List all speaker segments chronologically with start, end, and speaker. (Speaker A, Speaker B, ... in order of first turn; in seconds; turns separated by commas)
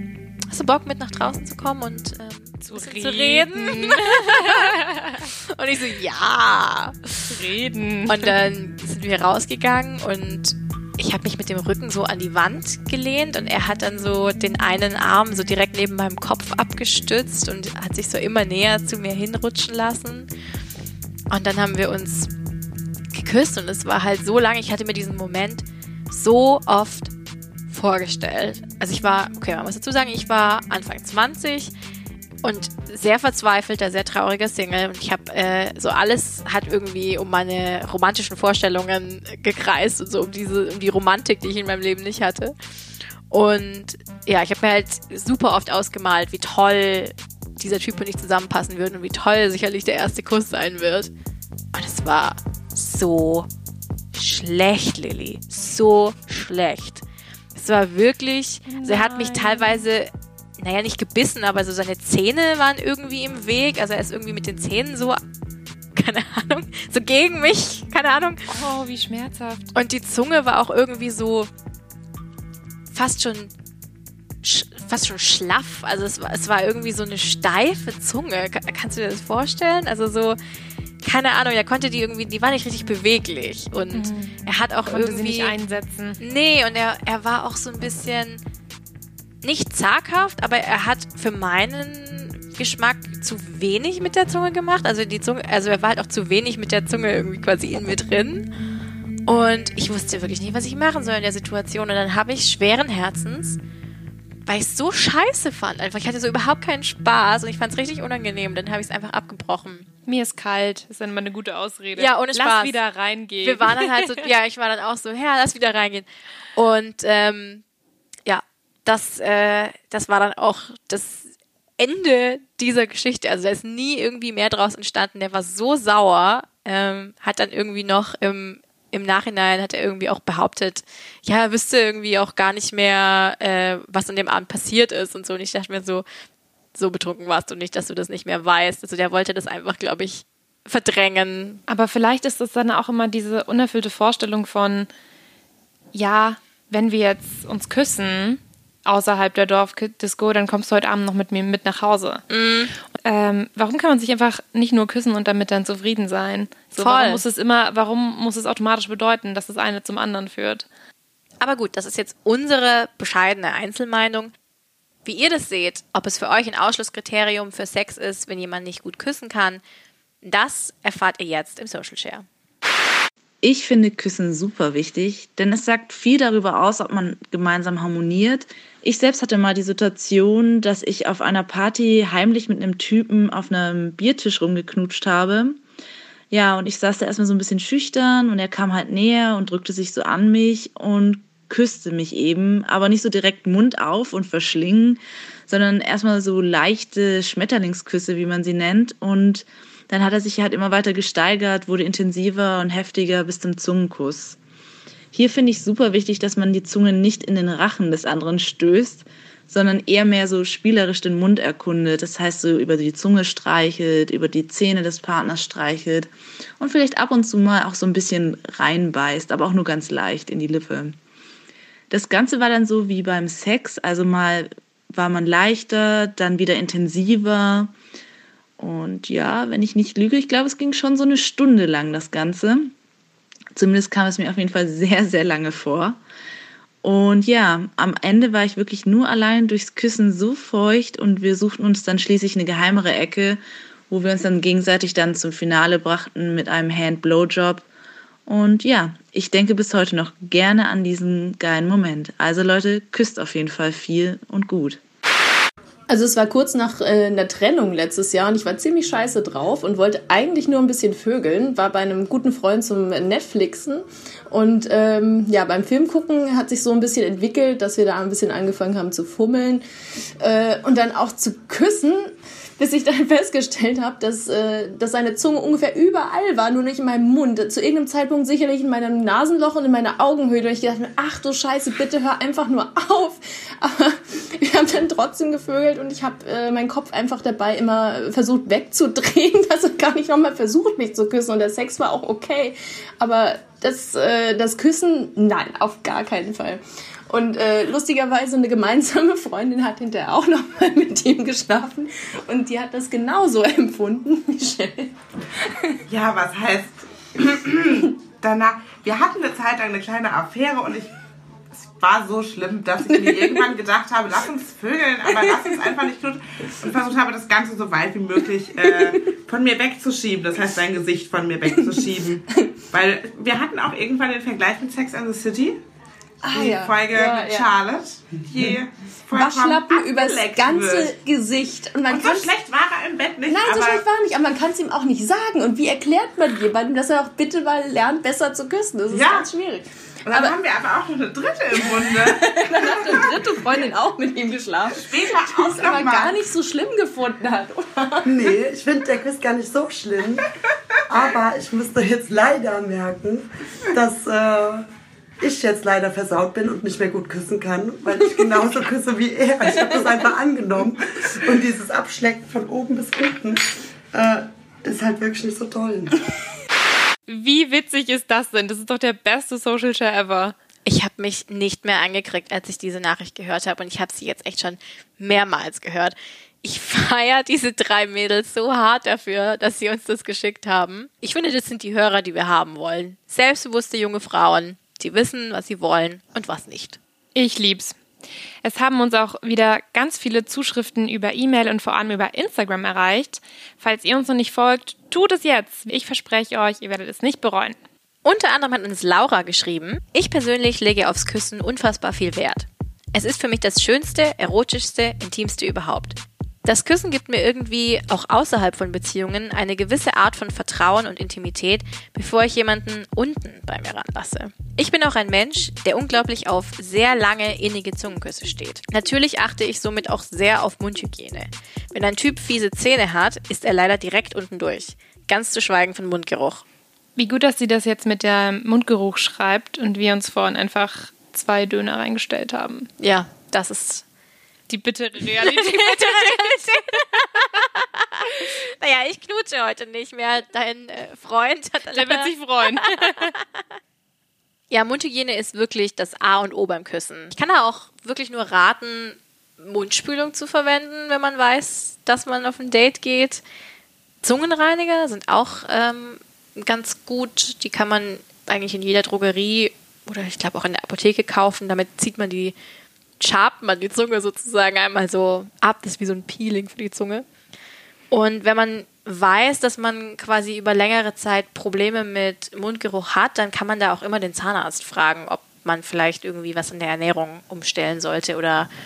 Speaker A: 0.5-7.3, Speaker B: 2.6-5.2, Speaker B: 7.3-8.5, Speaker A: 8.1-20.3, Speaker A: 21.3-22.3, Speaker A: 23.1-27.1, Speaker A: 27.7-31.7, Speaker A: 32.4-42.5, Speaker A: 43.3-51.1, Speaker A: 51.7-53.5, Speaker A: 54.1-57.0, Speaker A: 57.6-65.2, Speaker B: 58.7-59.8, Speaker A: 66.0-68.5, Speaker B: 68.5-69.7, Speaker A: 69.7-71.5, Speaker A: 72.9-73.5, Speaker A: 74.4-80.4, Speaker A: 81.0-85.6, Speaker B: 83.9-86.2, Speaker A: 86.2-88.4, Speaker A: 89.4-98.5, Speaker A: 99.3-103.6, Speaker A: 104.5-109.9, Speaker B: 110.1-114.3, Speaker A: 112.0-112.8, Speaker A: 113.4-117.6, Speaker A: 118.3-136.1, Speaker A: 136.8-141.6, Speaker B: 141.7-144.9, Speaker B: 145.9-152.2, Speaker A: 152.3-152.8, Speaker B: 153.0-160.7, Speaker A: 156.8-157.2, Speaker A: 161.4-164.3, Speaker A: 165.1-169.6, Speaker A: 170.2-172.3, Speaker C: 173.4-185.6, Speaker C: 186.3-204.4, Speaker C: 205.1-221.0, Speaker C: 221.9-227.7, Speaker C: 228.6-232.7, Speaker C: 233.6-236.0, Speaker C: 236.8-247.7, Speaker C: 248.3-254.8, Speaker D: 255.9-269.6, Speaker D: 270.2-304.9, Speaker E: 305.9-310.9, Speaker E: 311.5-325.6, Speaker D: 312.9-313.6, Speaker D: 315.1-315.6, Speaker D: 318.6-319.1, Speaker D: 321.5-322.5, Speaker D: 326.2-327.5, Speaker E: 326.3-330.9, Speaker D: 329.1-332.3, Speaker E: 331.9-333.9, Speaker D: 333.3-340.4, Speaker E: 338.9-339.3, Speaker E: 340.1-343.7, Speaker D: 341.5-348.4, Speaker E: 344.8-346.2, Speaker F: 348.1-350.2, Speaker F: 350.9-354.7, Speaker F: 355.2-366.0, Speaker B: 367.1-370.4, Speaker A: 370.6-386.8, Speaker B: 387.1-387.8, Speaker B: 388.4-397.6, Speaker A: 398.1-426.4, Speaker B: 427.0-432.7, Speaker A: 432.8-433.8, Speaker B: 434.5-437.1, Speaker A: 435.2-443.2, Speaker B: 441.7-443.1, Speaker A: 444.5-453.2, Speaker A: 454.0-462.4, Speaker A: 463.0-467.1, Speaker A: 467.9-478.5